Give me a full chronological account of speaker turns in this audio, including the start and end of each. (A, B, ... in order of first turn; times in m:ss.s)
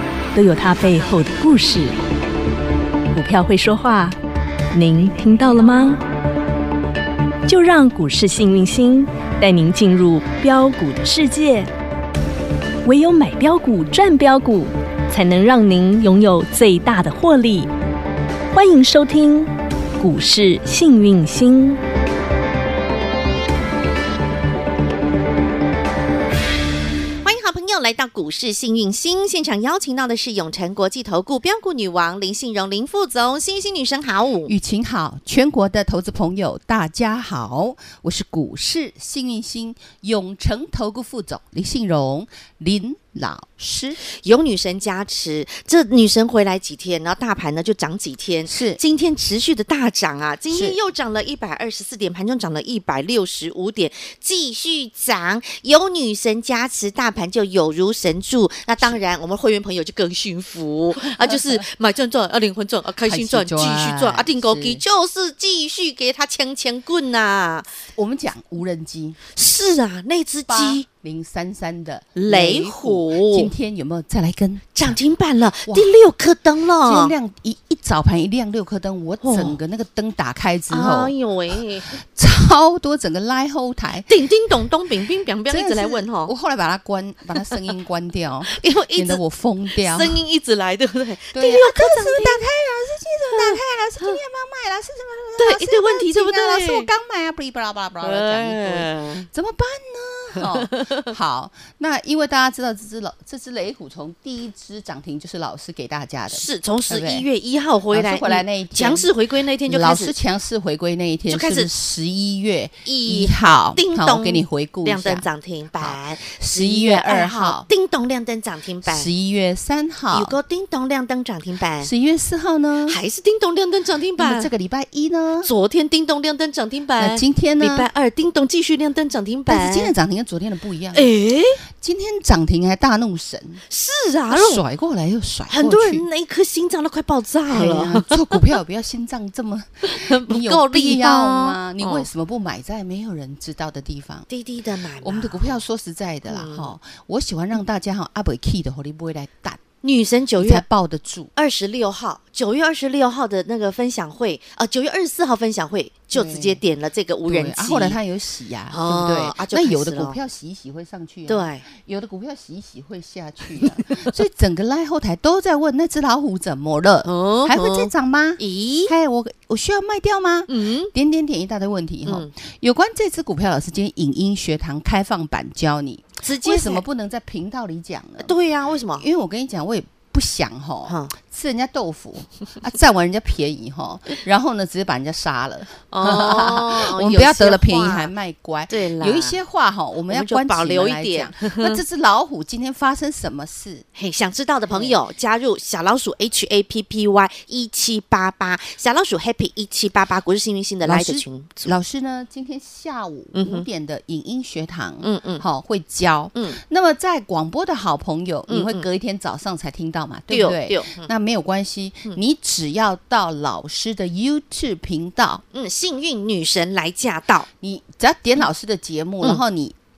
0:00.3-0:02.0 A
0:03.1-0:04.2 A
0:04.7-0:06.0 A
0:07.5-0:11.7 A
0:12.8-0:17.7 A
0:18.5-0:21.8 A
0:27.2-0:34.5 B
0:34.5-0:44.0 C
0:44.0-1:07.7 B
0:48.5-0:48.8 C
0:50.5-0:50.8 C
1:01.0-1:01.7 C
1:03.0-1:04.8 C
1:08.0-1:09.2 C
1:09.3-1:10.9 B
1:10.5-1:15.0 C
1:12.2-1:13.5 B
1:14.8-1:17.1 B
1:16.8-1:21.1 C
1:19.2-1:19.6 B
1:20.7-1:22.0 B
1:22.0-1:24.1 C
1:24.1-1:26.3 B
1:25.5-1:30.2 C
1:28.5-1:29.2 B
1:29.8-1:32.4 B
1:31.3-1:47.3 C
1:33.3-1:34.2 B
1:35.4-1:36.9 B
1:38.0-1:39.3 B
1:40.4-1:41.1 B
1:46.3-1:50.2 B
1:47.9-1:49.1 C
1:49.7-1:55.3 C
1:51.3-1:51.7 B
1:52.8-1:59.1 B
1:55.8-1:57.7 C
1:58.8-2:00.4 C
2:00.1-2:01.9 B
2:01.8-2:03.0 C
2:02.9-2:04.5 B
2:04.2-2:05.5 C
2:05.4-2:09.9 B
2:07.0-2:07.9 C
2:09.5-2:11.1 C
2:10.9-2:11.6 B
2:11.8-2:13.6 C
2:13.7-2:14.6 B
2:14.3-2:16.1 C
2:15.5-2:18.4 B
2:17.5-2:24.3 C
2:19.8-2:22.1 B
2:24.3-2:25.6 B
2:25.0-2:29.6 C
2:26.2-2:26.7 B
2:29.8-2:30.6 B
2:30.4-2:31.3 C
2:31.4-2:38.0 B
2:36.1-2:36.6 C
2:37.3-2:58.3 C
2:38.7-2:40.2 B
2:41.3-2:41.7 B
2:43.6-2:44.1 B
2:47.0-2:48.9 B
2:50.5-2:50.9 B
2:56.2-2:56.8 B
2:58.2-2:59.1 B
2:59.0-3:13.9 C
3:00.9-3:01.1 B
3:05.9-3:08.1 B
3:08.7-3:09.4 B
3:10.1-3:11.8 B
3:14.0-3:21.8 B
3:14.7-3:15.0 C
3:20.8-3:35.4 C
3:23.3-3:23.7 B
3:25.0-3:25.4 B
3:28.5-3:28.9 B
3:30.3-3:31.1 B
3:35.5-3:37.5 B
3:37.6-3:39.8 C